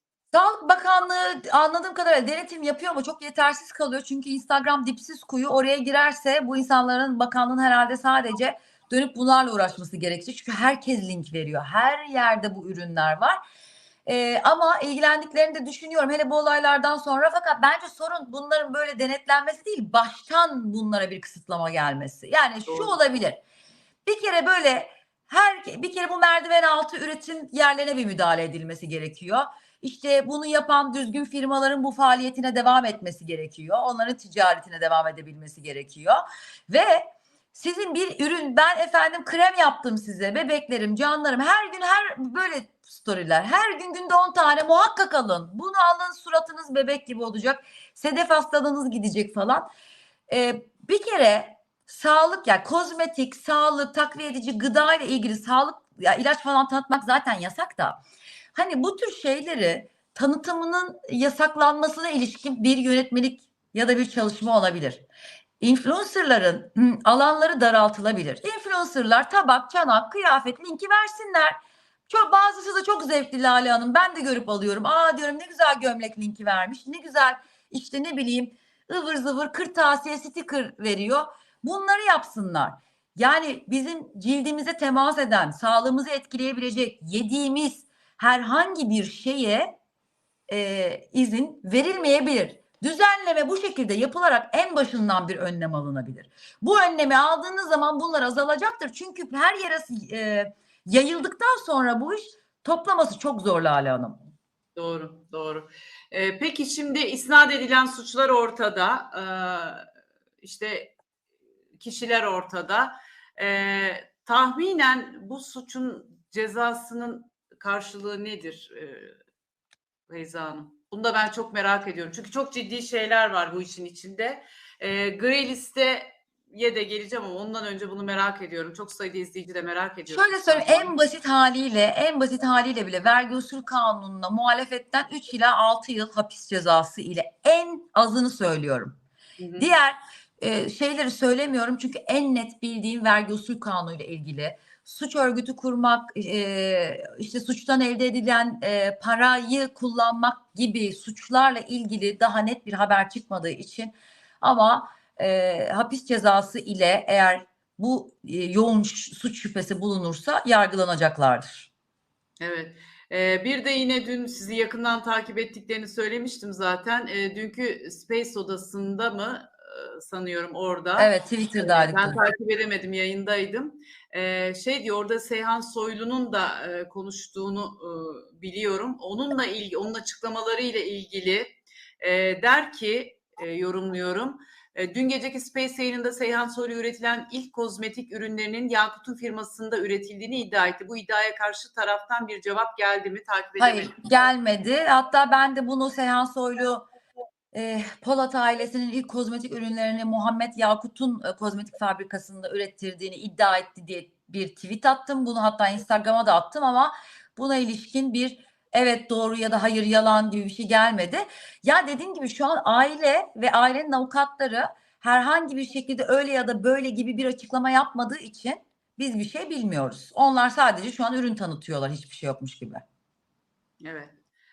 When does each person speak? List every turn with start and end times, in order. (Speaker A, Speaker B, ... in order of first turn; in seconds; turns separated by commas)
Speaker A: 0.3-13.4, Speaker A: 14.1-23.4, Speaker B: 22.7-23.0, Speaker A: 24.1-49.7, Speaker A: 50.3-58.0, Speaker A: 58.5-65.0, Speaker A: 65.6-89.7, Speaker A: 90.5-104.2, Speaker B: 104.8-109.9, Speaker B: 110.4-110.9, Speaker B: 111.8-119.2, Speaker B: 120.1-130.9, Speaker A: 130.1-139.0, Speaker B: 139.4-139.7, Speaker A: 139.6-161.7, Speaker B: 162.4-194.0, Speaker A: 171.0-172.2, Speaker A: 193.6-196.8, Speaker A: 197.5-222.8, Speaker B: 223.8-224.2